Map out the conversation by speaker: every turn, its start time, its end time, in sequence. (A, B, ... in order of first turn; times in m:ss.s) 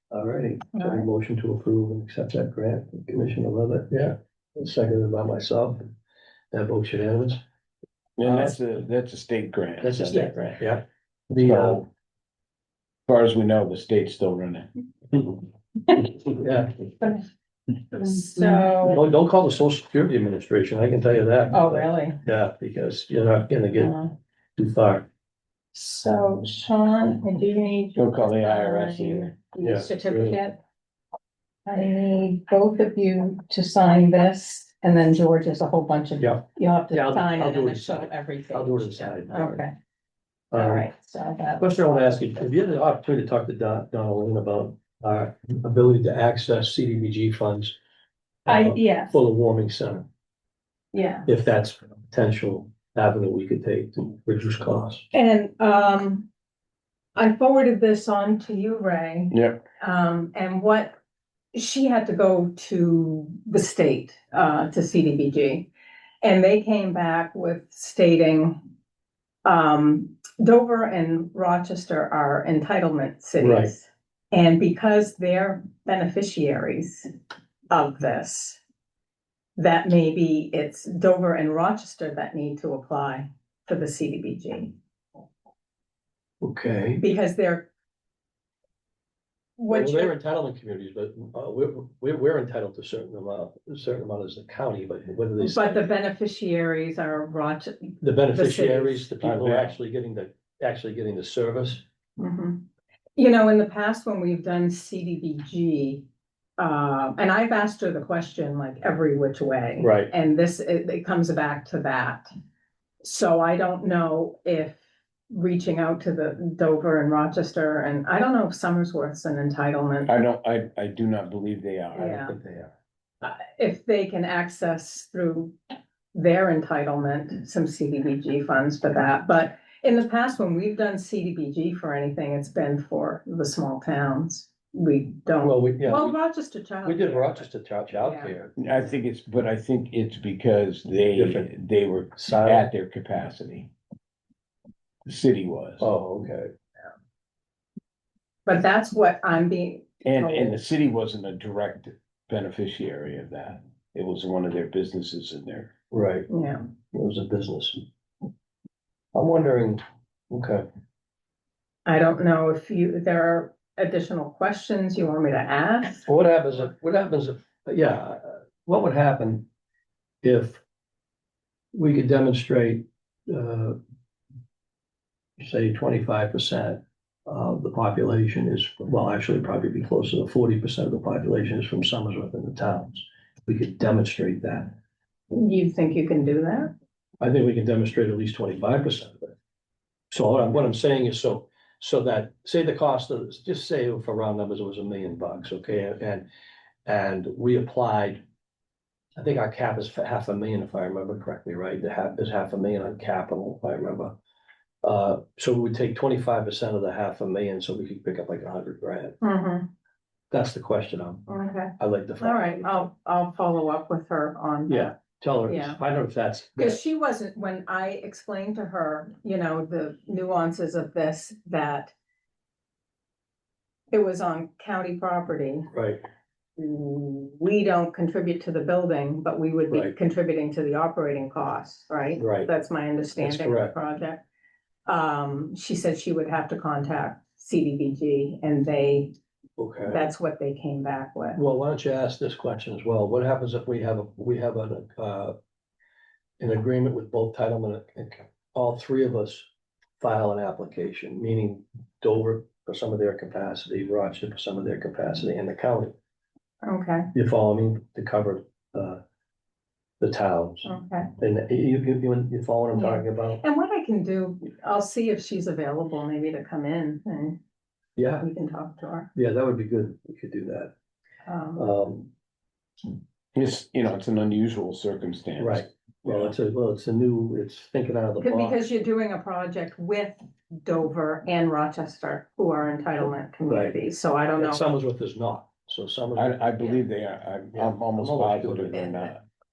0:00.1-0:05.9 A
0:00.8-0:01.1 B
0:06.5-0:07.4 A
0:08.2-0:10.3 C
0:08.2-0:08.6 A
0:09.8-0:11.8 A
0:11.4-0:11.9 C
0:13.1-0:14.7 C
0:16.0-0:16.7 A
0:17.9-0:19.0 B
0:18.8-0:23.9 A
0:21.5-0:22.2 B
0:23.8-0:24.2 B
0:24.6-0:25.1 A
0:25.7-0:30.6 B
0:28.0-0:29.4 C
0:29.6-0:29.9 A
0:30.1-0:30.4 C
0:31.7-0:39.7 B
0:36.2-0:39.6 A
0:40.5-0:40.9 A
0:40.6-0:41.7 B
0:41.6-0:47.7 A
0:48.4-0:50.1 A
0:48.5-0:49.2 B
0:50.9-0:51.3 B
0:51.3-0:55.0 A
0:55.1-0:56.3 B
0:57.2-1:01.0 B
0:59.3-0:59.6 C
1:01.5-1:05.7 B
1:06.2-1:08.6 B
1:09.4-1:17.1 B
1:13.4-1:13.7 A
1:17.7-1:18.6 B
1:19.6-1:24.7 B
1:26.4-1:27.0 A
1:27.0-1:27.7 B
1:29.6-1:30.2 B
1:29.7-1:35.8 A
1:35.4-1:39.1 B
1:38.0-1:41.8 A
1:39.2-1:39.7 C
1:42.2-1:42.6 B
1:43.2-1:46.1 B
1:46.6-1:52.2 B
1:49.8-1:50.1 A
1:53.0-2:00.1 B
2:00.1-2:02.4 C
2:02.0-2:02.4 B
2:02.3-2:02.8 A
2:03.2-2:05.6 B
2:06.1-2:18.4 B
2:15.4-2:16.1 A
2:16.8-2:18.5 A
2:18.6-2:23.7 C
2:21.2-2:21.5 A
2:22.2-2:22.7 A
2:25.1-2:25.9 C
2:25.8-2:26.5 A
2:28.5-2:30.6 B
2:30.0-2:35.7 C
2:35.9-2:36.3 A
2:36.3-2:36.7 B
2:36.9-2:37.8 A
2:39.2-2:40.7 A
2:41.9-2:46.1 B
2:46.1-2:49.4 A
2:50.2-2:50.6 A
2:51.7-2:53.8 A
2:55.4-3:04.7 A
3:05.3-3:06.7 B
3:07.2-3:09.3 A
3:10.1-3:16.3 A
3:16.9-3:18.2 A
3:19.2-3:24.1 A
3:24.8-3:29.2 A
3:29.2-3:29.7 B
3:30.3-3:31.3 A
3:31.3-3:35.8 B
3:31.8-3:32.8 A
3:34.7-3:36.8 A
3:36.6-3:41.9 B
3:43.9-3:45.7 B
3:45.7-3:46.0 A
3:46.6-3:54.2 B
3:52.2-3:52.5 A
3:53.2-3:53.7 A
3:54.9-3:59.1 B
3:59.6-4:00.0 A
3:59.9-4:01.4 B
4:01.4-4:05.4 A
4:06.4-4:09.4 A
4:10.0-4:15.9 A
4:16.6-4:17.1 B
4:17.1-4:19.0 A
4:20.0-4:20.7 A
4:20.6-4:21.1 B
4:21.2-4:23.4 A
4:22.8-4:27.4 B
4:28.0-4:28.3 A
4:28.2-4:29.1 B
4:29.2-4:30.7 A
4:31.3-4:31.7 B
4:31.6-4:32.1 A
4:33.4-4:36.3 C
4:35.4-4:38.6 A
4:38.2-4:44.6 B
4:43.5-4:43.8 A
4:44.4-4:46.5 A
4:46.2-4:49.2 C
4:47.5-4:48.8 A
4:48.7-4:49.2 B